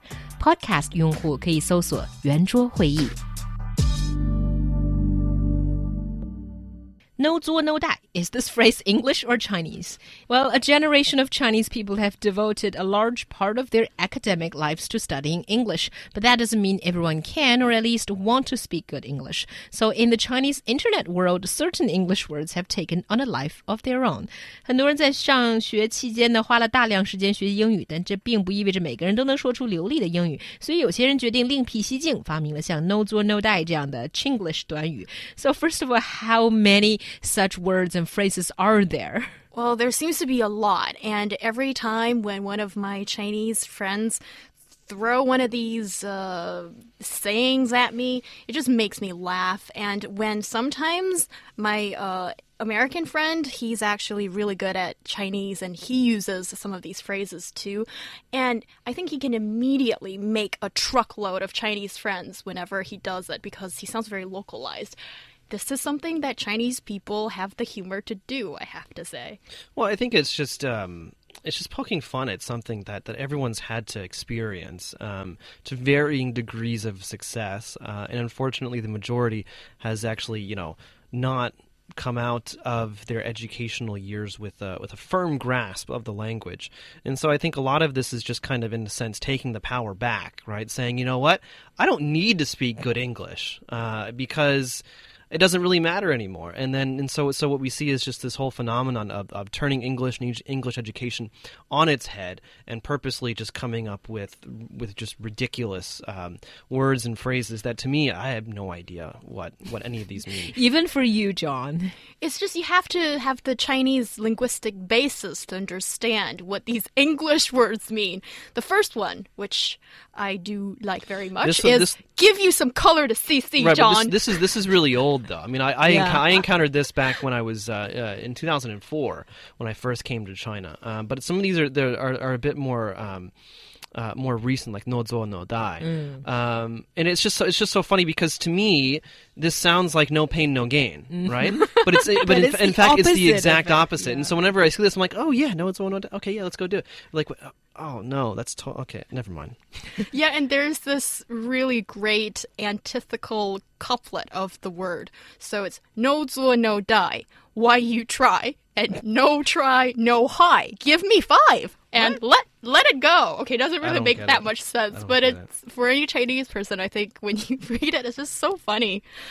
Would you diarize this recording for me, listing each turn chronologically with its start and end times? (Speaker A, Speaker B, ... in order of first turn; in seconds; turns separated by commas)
Speaker A: 0.4-3.2, Speaker A: 7.2-39.3, Speaker B: 39.5-44.2, Speaker B: 44.9-65.0, Speaker B: 65.5-69.4, Speaker C: 69.8-110.5, Speaker A: 110.4-112.0, Speaker B: 112.2-124.2, Speaker C: 121.4-122.0, Speaker C: 123.6-133.3, Speaker A: 125.9-126.3, Speaker C: 133.9-149.6, Speaker A: 135.8-136.2, Speaker A: 141.1-144.3, Speaker B: 150.1-169.1, Speaker C: 163.8-165.4